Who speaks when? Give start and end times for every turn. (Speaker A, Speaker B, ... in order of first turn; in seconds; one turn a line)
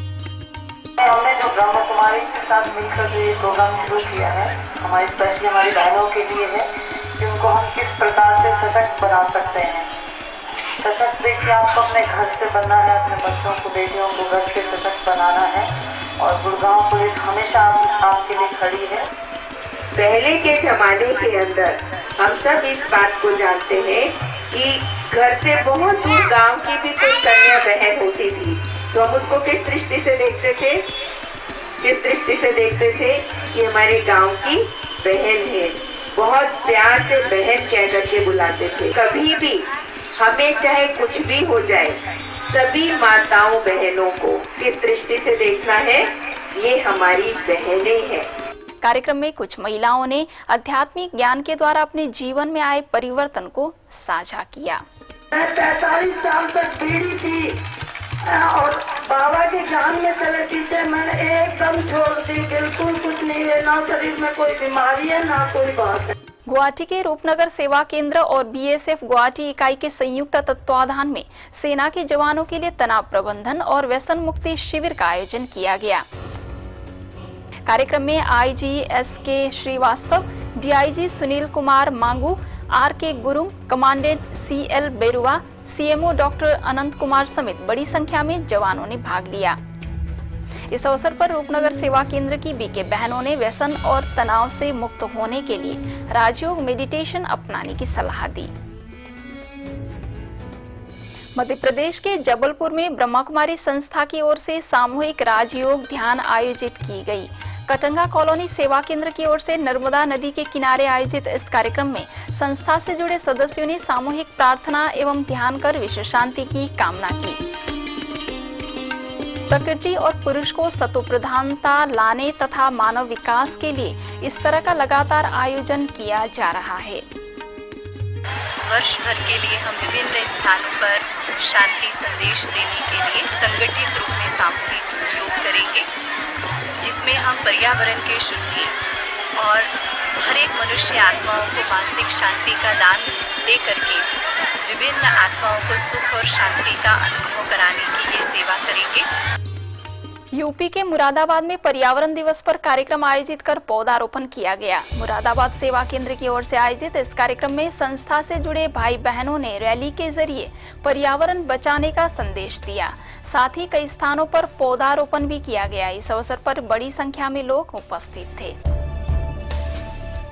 Speaker A: 1.0-9.9
Speaker A: 10.8-19.1
Speaker B: 19.9-30.8
Speaker B: 31.8-39.7
Speaker B: 40.2-48.3
Speaker C: 48.8-54.8
Speaker D: 55.3-57.6
Speaker D: 58.3-66.1
Speaker C: 66.5-76.0
Speaker C: 77.7-89.6
Speaker C: 90.7-98.5
Speaker C: 101.4-117.4
Speaker C: 119.5-127.0
Speaker E: 128.7-135.9
Speaker E: 136.8-138.7
Speaker E: 139.4-144.1
Speaker E: 144.7-149.1
Speaker C: 150.4-168.6